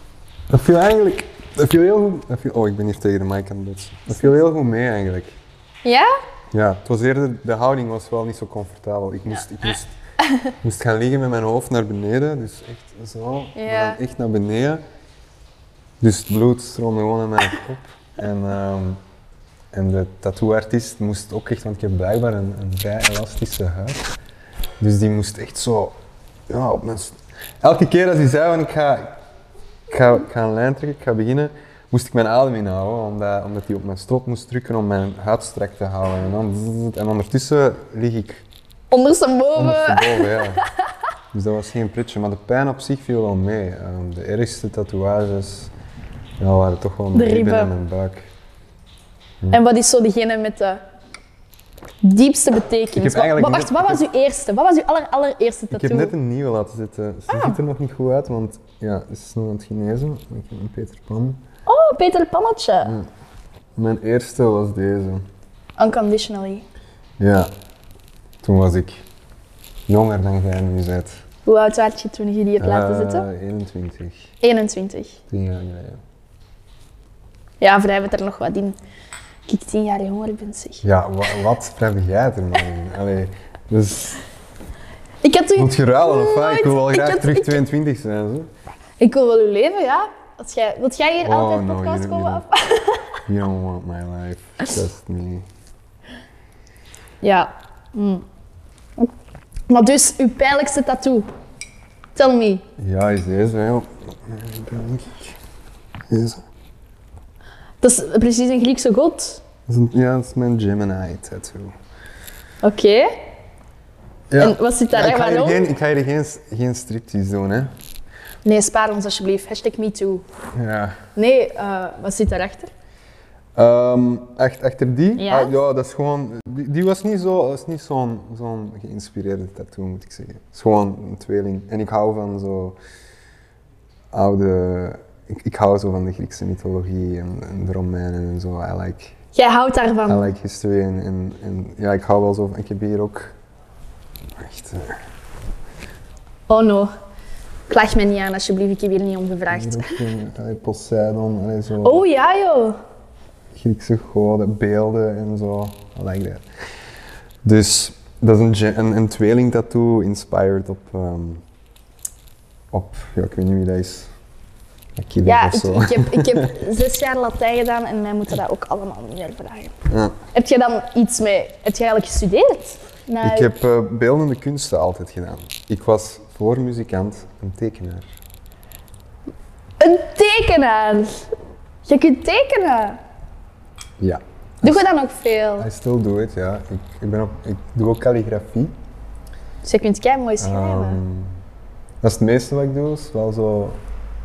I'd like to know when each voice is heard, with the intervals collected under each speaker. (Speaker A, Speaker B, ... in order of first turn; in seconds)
Speaker A: 0.5-5.4, 6.5-10.0, 10.6-14.8, 16.0-19.0, 19.7-24.1, 24.8-25.9, 26.5-29.2, 29.9-38.4, 39.5-40.6, 41.3-45.7, 46.4-48.3, 52.9-54.0, 55.7-61.4, 62.8-63.1, 63.8-65.2, 67.2-67.5, 68.4-69.0, 69.9-71.2, 72.6-74.3, 75.3-76.0, 80.8-84.2, 85.5-88.5, 91.2-92.4, 93.2-95.4, 102.8-105.3, 106.1-106.4, 109.7-111.7, 114.3-117.7, 120.5-121.0, 123.5-132.8, 134.1-139.2, 140.1-143.3, 144.4-145.0, 149.5-152.0, 153.5-156.4, 157.4-161.4, 162.7-164.1, 165.0-166.5, 169.9-170.2, 173.2-178.1, 184.0-184.8, 185.6-188.7, 190.4-191.3, 192.0-193.8
Speaker B: 5.8-6.2, 10.2-10.5, 13.6-14.0, 38.9-40.9, 47.1-47.7, 49.5-50.8, 52.0-56.1, 57.3-57.6, 61.6-62.9, 65.8-66.7, 71.5-73.2, 74.4-75.2, 77.6-78.8, 79.5-80.8, 85.2-87.6, 89.0-93.2, 97.2-98.2, 99.7-101.3, 102.1-102.6, 107.8-109.4, 112.6-113.2, 114.4-115.7, 118.4-120.2, 121.2-122.7, 125.2-125.5, 139.3-140.3, 146.5-146.9, 147.7-150.0, 151.8-152.8, 165.2-169.7, 170.3-173.5, 179.8-181.3, 181.8-183.0, 184.6-185.7, 189.6-191.0